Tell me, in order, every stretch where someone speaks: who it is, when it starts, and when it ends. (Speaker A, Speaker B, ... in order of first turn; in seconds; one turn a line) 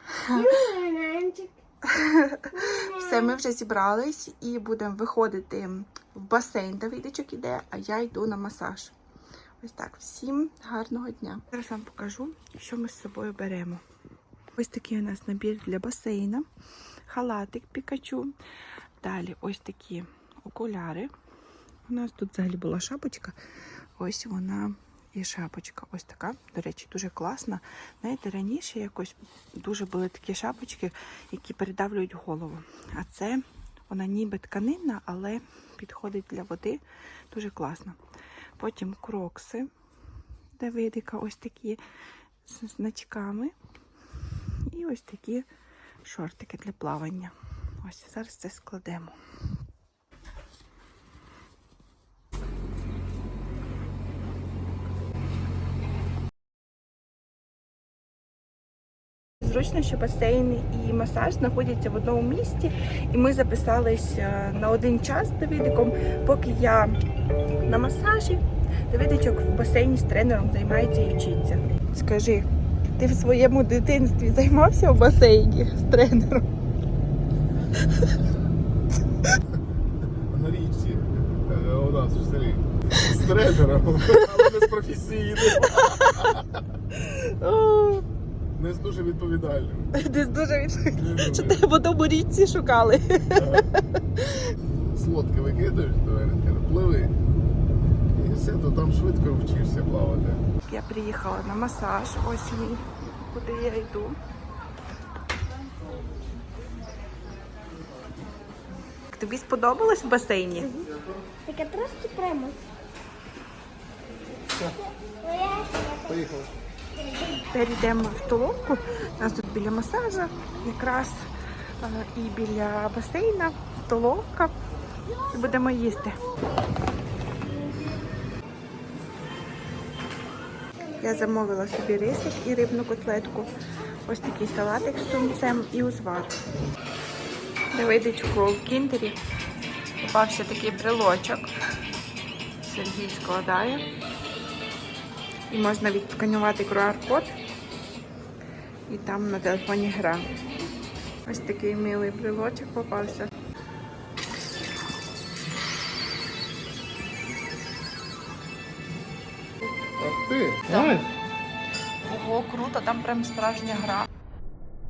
Speaker A: 0.3-1.5
Speaker B: 1.8-8.9
Speaker A: 2.6-2.9
Speaker B: 9.6-13.8
Speaker B: 14.5-16.4
Speaker B: 17.1-18.3
Speaker B: 19.0-21.1
Speaker B: 21.9-23.4
Speaker B: 24.0-38.0
Speaker B: 38.6-39.7
Speaker B: 40.6-41.8
Speaker B: 42.4-43.5
Speaker B: 44.7-45.5
Speaker B: 46.0-49.1
Speaker B: 59.4-66.9
Speaker B: 67.6-76.5
Speaker C: 80.3-86.5
Speaker B: 84.2-84.5
Speaker B: 85.4-86.3
Speaker B: 86.9-88.0
Speaker C: 88.5-89.9
Speaker B: 89.9-93.6
Speaker C: 90.9-91.6
Speaker C: 93.3-93.7
Speaker C: 94.9-97.1
Speaker C: 98.1-100.4
Speaker B: 100.7-104.2
Speaker B: 109.1-110.8
Speaker A: 111.4-112.6
Speaker A: 114.8-116.2
Speaker C: 116.1-116.5
Speaker B: 117.4-121.3
Speaker B: 121.8-124.5
Speaker B: 125.2-126.2
Speaker B: 131.0-133.5
Speaker B: 134.0-136.4
Speaker B: 137.7-139.2
Speaker B: 140.0-141.5
Speaker B: 142.6-143.9
Speaker B: 145.5-147.3
Speaker B: 148.9-150.3
Speaker B: 151.2-153.3
Speaker C: 160.0-161.1
Speaker B: 160.7-161.1
Speaker B: 162.0-164.1